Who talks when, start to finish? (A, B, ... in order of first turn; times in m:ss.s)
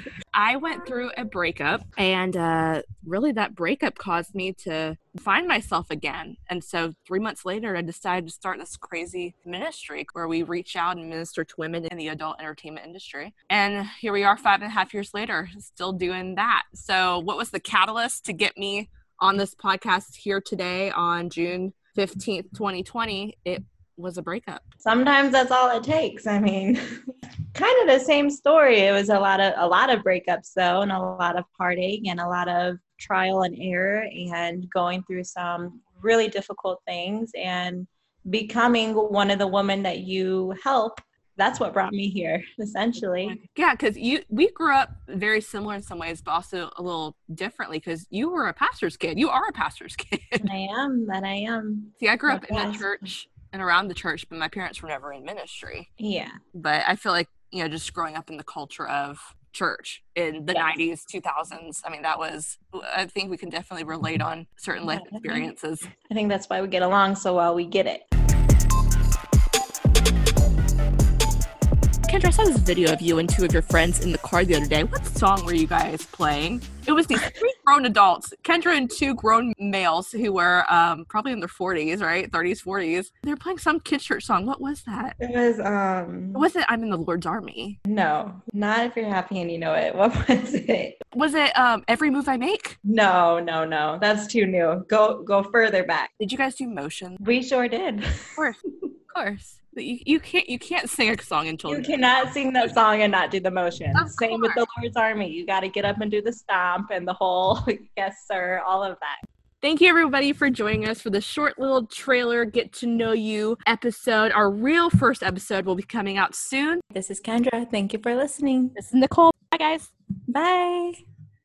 0:00.3-0:24.7 A
0:24.8-0:26.8 B
0:27.5-0:43.4 B
0:43.2-0:50.5 A
0:50.4-0:52.9 B
0:52.0-0:55.9 A
0:56.0-0:56.3 B
0:56.5-1:05.9 A
1:04.8-1:05.5 B
1:06.0-1:08.0 B
1:12.0-1:25.2 A
1:25.2-1:26.5 B
1:26.3-1:27.8 A
1:27.9-1:31.0 B
1:31.1-1:32.8 A
1:32.8-1:36.1 B
1:36.2-1:37.2 A
1:37.2-1:38.3 B
1:38.4-1:42.3 A
1:41.6-1:49.2 B
1:43.9-1:44.6 A
1:49.6-1:56.8 A
1:56.9-1:58.7 B
1:58.7-1:59.9 A
2:00.3-2:01.0 B